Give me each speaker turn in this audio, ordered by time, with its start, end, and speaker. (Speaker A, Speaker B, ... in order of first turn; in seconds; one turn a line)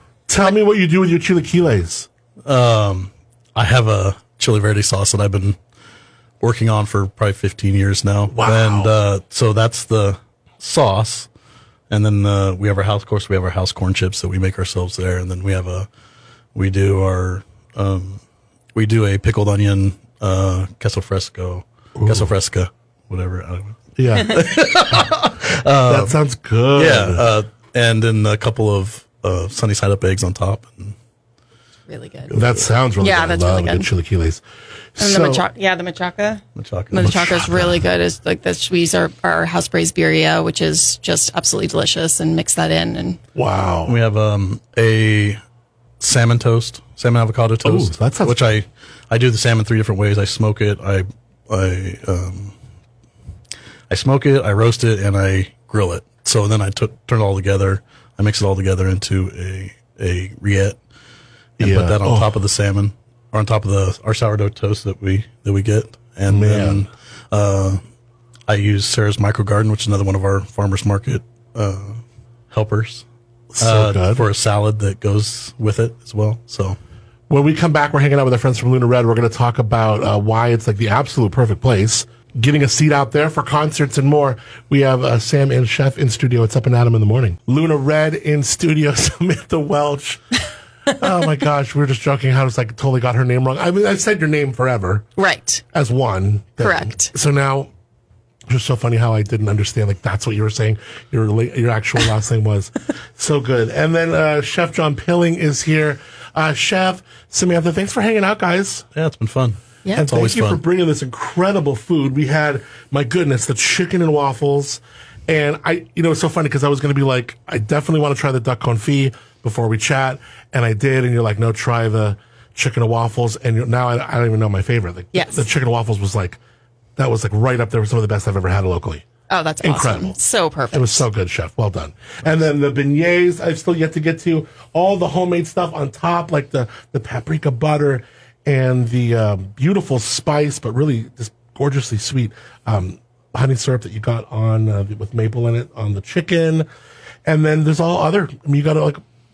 Speaker A: 0.3-2.1
Speaker B: 2.5-5.6
Speaker B: 6.4-11.3
Speaker A: 8.3-8.9
Speaker B: 11.9-15.9
Speaker B: 16.6-18.2
Speaker B: 18.8-26.2
Speaker A: 22.0-22.3
Speaker A: 24.0-24.4
Speaker A: 25.8-27.3
Speaker B: 26.8-30.9
Speaker C: 31.9-32.3
Speaker B: 32.3-32.7
Speaker A: 32.3-34.4
Speaker C: 33.0-33.9
Speaker A: 35.0-35.5
Speaker C: 35.0-43.2
Speaker B: 36.5-37.6
Speaker A: 37.4-37.8
Speaker A: 43.4-44.0
Speaker B: 43.9-45.4
Speaker B: 46.0-52.5
Speaker A: 47.6-48.5
Speaker B: 53.9-60.8
Speaker B: 61.6-67.8
Speaker A: 61.6-62.4
Speaker A: 66.3-66.8
Speaker B: 68.5-73.1
Speaker A: 73.5-74.3
Speaker B: 73.6-76.8
Speaker A: 77.3-90.2
Speaker A: 90.9-95.1
Speaker C: 95.2-95.6
Speaker A: 95.7-97.7
Speaker C: 96.6-97.1
Speaker A: 98.5-108.9
Speaker B: 109.0-110.6
Speaker A: 110.0-126.4
Speaker C: 125.1-125.5
Speaker A: 127.0-129.1
Speaker C: 129.3-131.0
Speaker A: 129.6-130.2
Speaker A: 130.7-146.7
Speaker A: 147.3-149.0